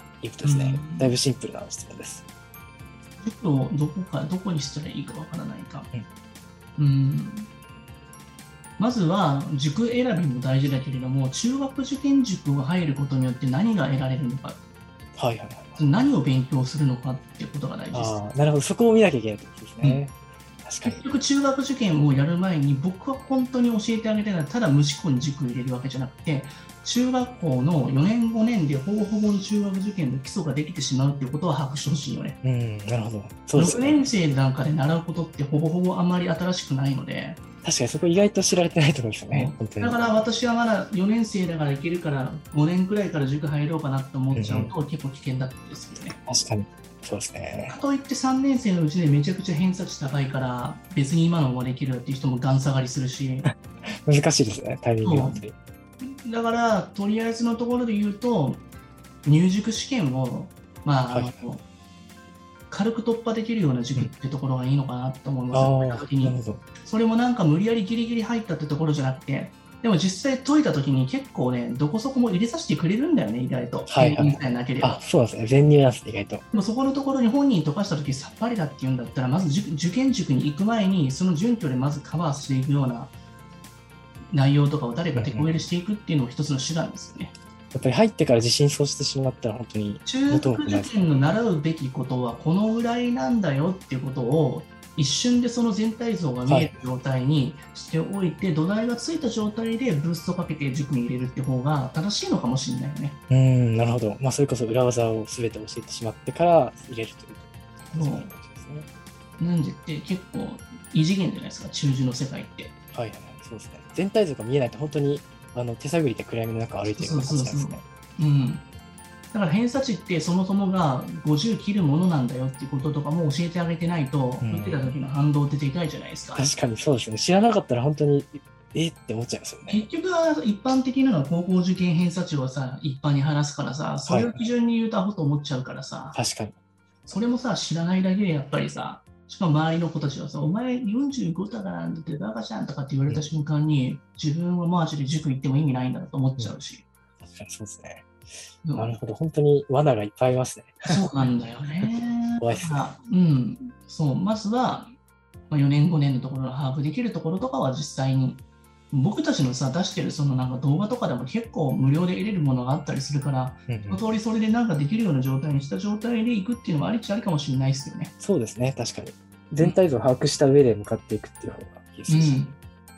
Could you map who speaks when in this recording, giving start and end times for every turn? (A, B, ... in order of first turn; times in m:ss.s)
0:00.2-0:02.2 A
0:00.4-0:01.2 B
0:03.2-0:05.9 B
0:06.8-0:07.5 B
0:08.8-0:14.6 B
0:15.2-0:15.8 A
0:15.7-0:18.2 B
0:17.9-0:21.0 A
0:20.8-0:32.4 B
0:32.4-0:34.1 A
0:33.5-0:37.4 B
0:37.6-0:40.0 A
0:39.3-0:46.2 B
0:44.3-0:44.7 A
0:46.2-0:47.8 A
0:47.7-0:53.5 B
0:54.0-0:55.5 A
0:55.0-0:55.4 B
0:56.0-0:58.6 B
0:59.2-1:01.6 B
1:01.1-1:01.4 A
1:02.7-1:15.0 B
1:05.5-1:06.6 A
1:13.9-1:16.4 A
1:16.5-1:23.1 B
1:24.3-1:27.3 B
1:25.1-1:25.6 A
1:27.7-1:31.3 A
1:30.0-1:43.2 B
1:36.4-1:36.8 A
1:43.3-1:48.9 A
1:47.9-1:48.3 B
1:49.4-1:52.7 B
1:52.9-1:57.8 A
1:56.9-1:58.6 B
1:59.3-2:06.5 B
2:04.4-2:05.0 A
2:06.3-2:09.9 A
2:09.7-2:16.2 B
2:14.0-2:14.5 A
2:16.1-2:16.6 A
2:17.1-2:26.8 B
2:27.2-2:28.1 A
2:28.6-2:28.9 B
2:28.7-2:31.2 A
2:30.8-2:34.9 B
2:32.4-2:32.8 A
2:35.5-2:48.1 B
2:43.7-2:44.0 A
2:48.2-2:52.4 A
2:52.1-2:52.6 B